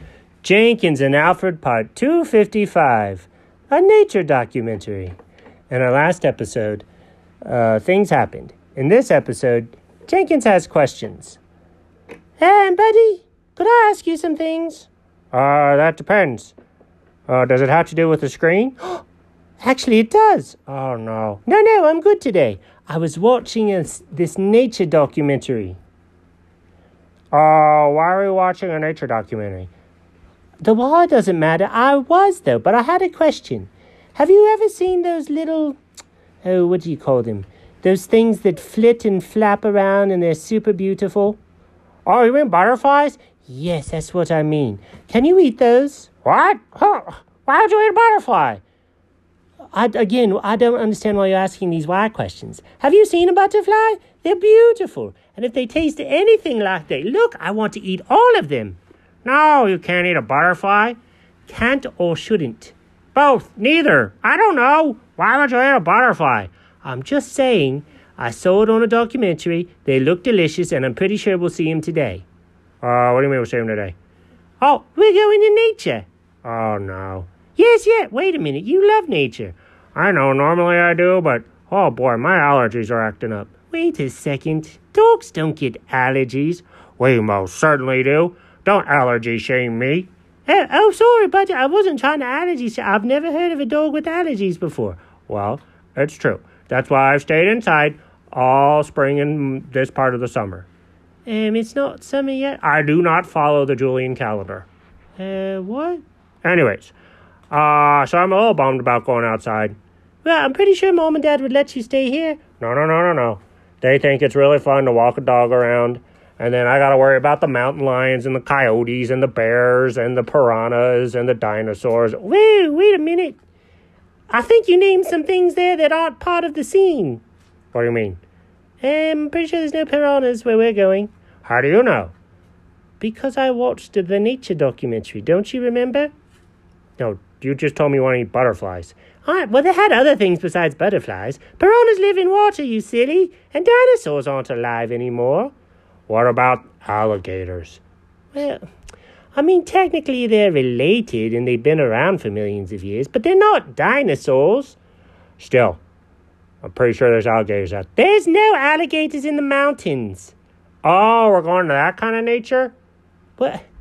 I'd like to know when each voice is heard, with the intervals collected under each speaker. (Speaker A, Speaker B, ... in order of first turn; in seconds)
Speaker A: 0.4-5.1, 5.7-6.8, 7.4-11.4, 12.4-16.6, 17.3-19.0, 19.6-25.8, 27.3-29.7, 30.6-35.8, 36.4-41.4, 42.1-48.6, 49.7-72.3, 72.8-74.0, 74.6-100.7, 101.3-107.0, 107.5-123.4, 124.3-128.2, 128.8-132.1, 133.0-136.1, 137.0-145.5, 146.1-147.8, 148.3-148.6, 149.3-154.8, 155.4-155.8, 156.6-162.7, 163.4-163.7